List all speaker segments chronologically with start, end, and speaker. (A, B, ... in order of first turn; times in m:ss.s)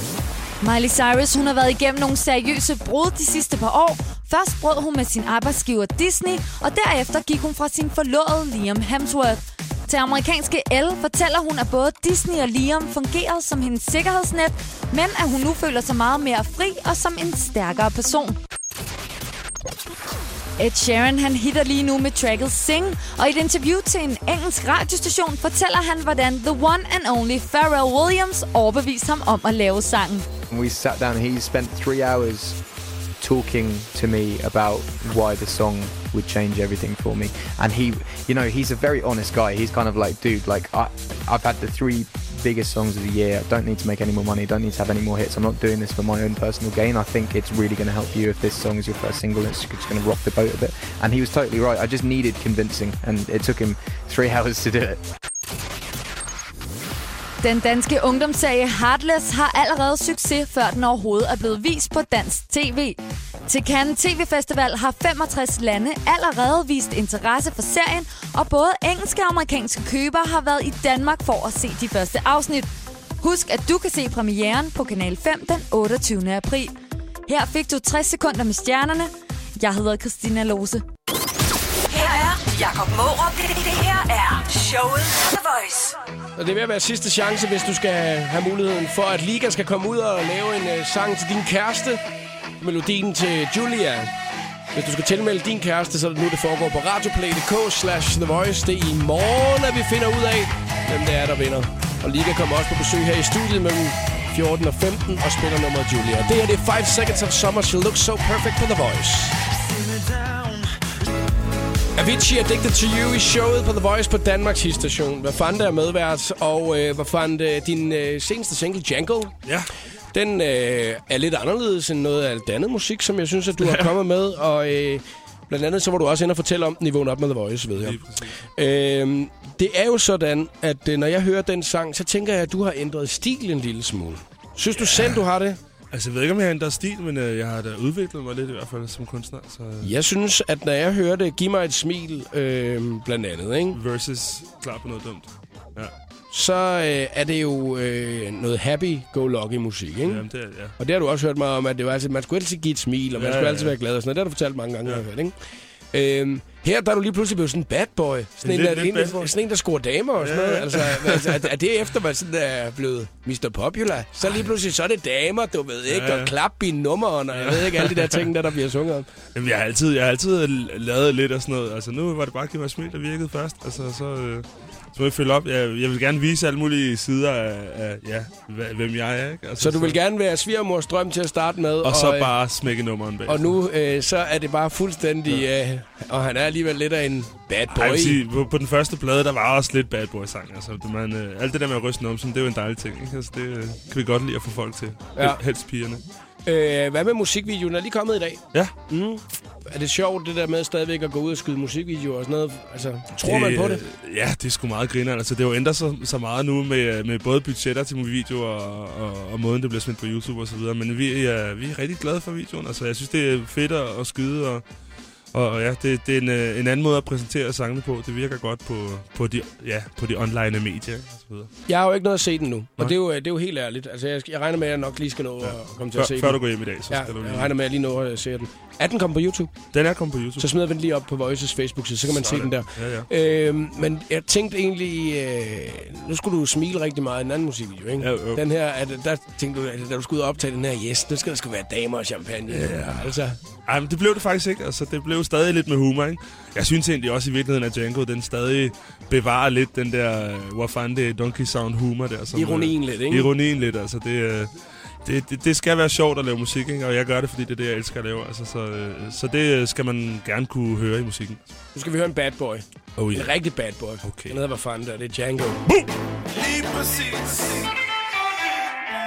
0:00.6-0:18.4 A
0:20.6-0:30.3 A
0:30.5-0:32.6 B
0:33.2-0:55.0 B
0:57.4-1:12.7 A
1:13.2-1:16.7 A
1:17.3-1:20.8 A
1:21.9-1:26.0 C
1:26.4-1:32.0 D
1:32.6-1:34.1 D
1:34.8-1:49.4 D
1:52.0-1:59.3 D
2:00.1-2:15.6 D
2:03.6-2:03.9 E
2:07.8-2:08.4 E
2:14.8-2:15.2 E
2:15.9-2:19.9 E
2:19.8-2:23.8 D
2:23.7-2:25.9 E
2:26.3-2:30.2 D
2:30.0-2:30.8 E
2:30.8-2:35.3 D
2:33.2-2:33.8 E
2:35.9-2:49.1 D
2:38.4-2:39.3 E
2:40.2-2:41.5 E
2:45.9-2:46.4 E
2:47.3-2:48.3 E
2:49.3-3:00.0 E
2:59.6-3:02.3 D
3:01.8-3:03.6 E
3:03.3-3:08.2 D
3:07.7-3:16.0 E
3:15.2-3:15.4 D
3:16.4-3:23.8 D
3:23.2-3:34.6 E
3:35.3-3:41.5 E
3:41.7-3:49.5 D
3:45.4-3:47.6 E
3:49.7-3:50.6 E
3:50.4-4:03.4 D
3:52.0-3:53.1 E
3:58.0-3:58.4 E
4:02.5-4:14.5 E
4:12.3-4:13.3 D
4:15.0-4:21.5 E
4:21.8-4:25.6 D
4:23.0-4:23.4 E
4:24.0-4:24.4 E
4:25.7-4:27.7 E